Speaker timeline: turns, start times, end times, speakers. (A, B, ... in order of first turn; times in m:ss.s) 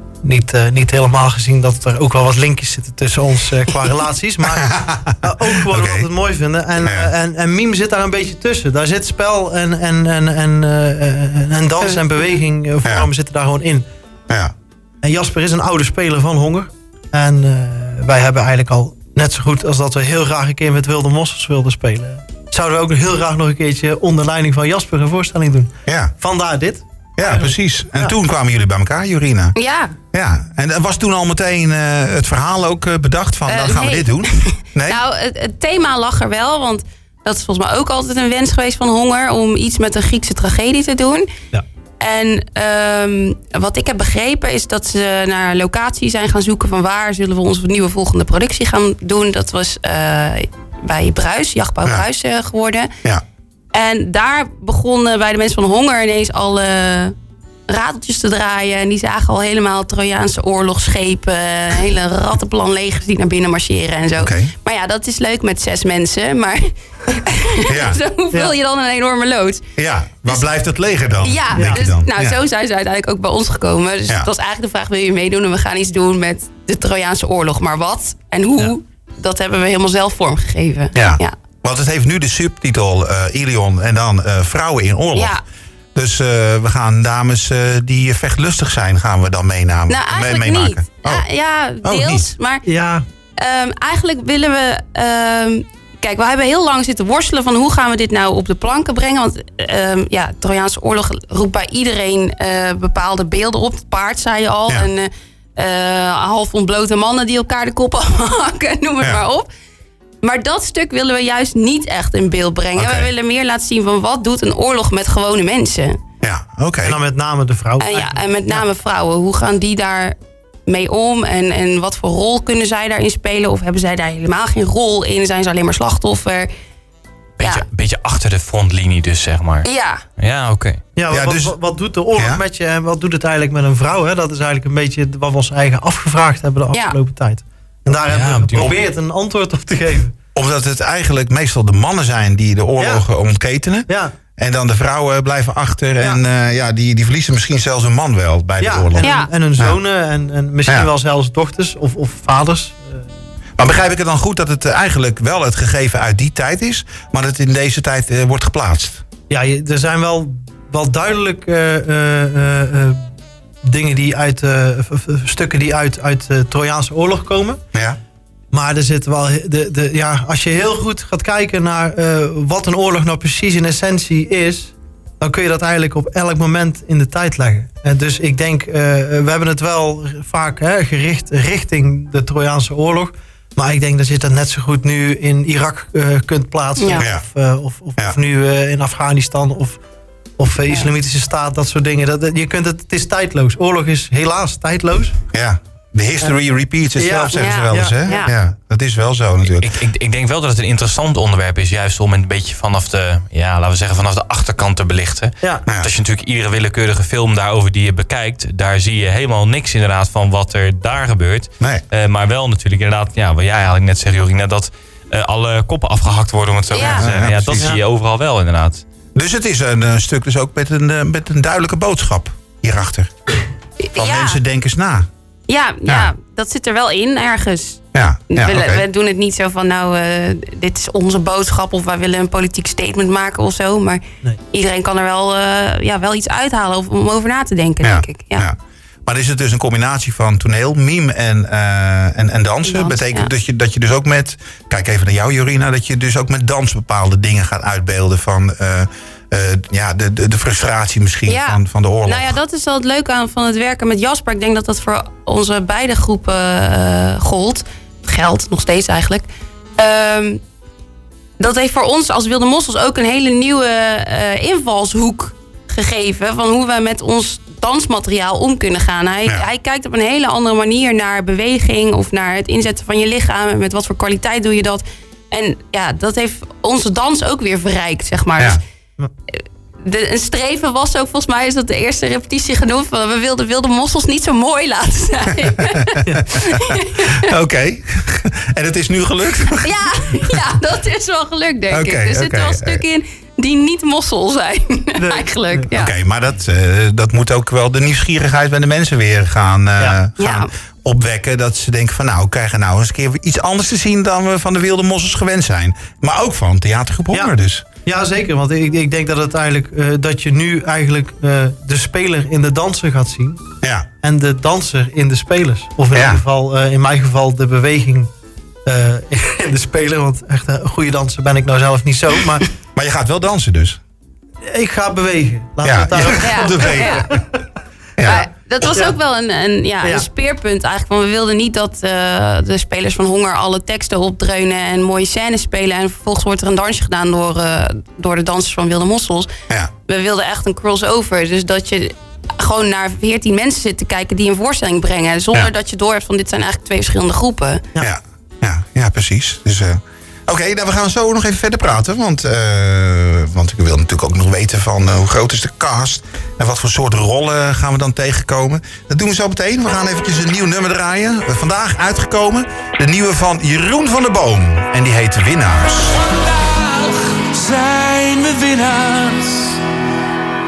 0:00.2-0:13.8 A
0:04.6-0:06.1 B
0:06.8-0:07.1 B
0:12.8-0:13.1 B
0:15.0-0:28.1 A
0:25.8-0:26.1 B
0:27.2-0:29.5 B
0:29.5-0:30.0 C
0:30.1-0:35.0 B
0:33.5-0:41.3 C
0:42.0-0:52.9 C
0:53.7-0:57.1 C
0:57.7-1:09.6 C
1:04.2-1:04.5 B
1:07.7-1:08.0 B
1:09.8-1:12.4 B
1:11.2-1:21.3 C
1:11.5-1:11.9 A
1:20.9-1:25.3 B
1:25.1-1:25.4 C
1:25.9-1:31.3 B
1:29.9-1:32.6 C
1:31.8-1:32.3 B
1:32.6-1:33.0 A
1:33.4-1:49.5 C
1:50.2-1:56.0 C
1:52.7-1:53.1 B
1:56.2-1:57.0 B
1:56.8-1:58.6 A
1:57.8-2:06.5 C
2:07.4-2:09.7 D
2:09.6-2:10.0 C
2:10.2-2:10.8 D
2:11.0-2:20.1 A
2:11.1-2:11.5 B
2:12.1-2:12.4 B
2:16.7-2:17.0 C
2:18.0-2:18.8 D
2:20.3-2:29.8 B
2:22.8-2:23.0 A
2:23.9-2:24.2 A
2:28.6-2:33.0 A
2:29.0-2:29.3 C
2:33.6-2:39.0 B
2:39.3-2:43.0 A
2:43.6-2:47.6 A
2:48.5-3:09.8 A
3:06.8-3:07.0 C
3:07.0-3:07.2 B
3:10.4-3:15.2 A
3:15.3-3:19.7 B
3:17.0-3:18.3 A
3:17.3-3:18.3 C
3:19.5-3:38.8 D
3:36.7-3:37.1 C
3:36.8-3:37.7 B
3:39.1-3:43.1 B
3:43.8-3:44.4 C
3:44.0-3:45.1 B
3:45.5-3:58.5 C
3:45.8-3:46.1 B
3:47.9-3:48.8 B
3:57.8-4:12.4 B
4:02.6-4:03.3 C
4:11.2-4:20.4 C
4:21.4-4:38.6 C
4:39.3-4:47.3 C
4:46.3-4:50.4 B
4:49.6-4:55.9 C
4:51.7-4:52.8 B
4:55.0-4:55.7 A
4:55.7-5:07.6 B
5:00.2-5:00.5 C
5:07.8-5:13.4 A
5:13.6-5:13.9 B
5:14.0-5:18.1 A
5:15.9-5:16.2 B
5:18.6-5:22.5 A
5:22.7-5:23.8 B
5:24.4-5:27.1 A
5:25.6-5:27.2 B
5:26.1-5:27.1 C
5:28.0-5:28.7 B
5:28.0-5:47.6 C
5:28.1-5:29.0 A
5:47.8-6:06.0 B
6:06.8-6:09.5 E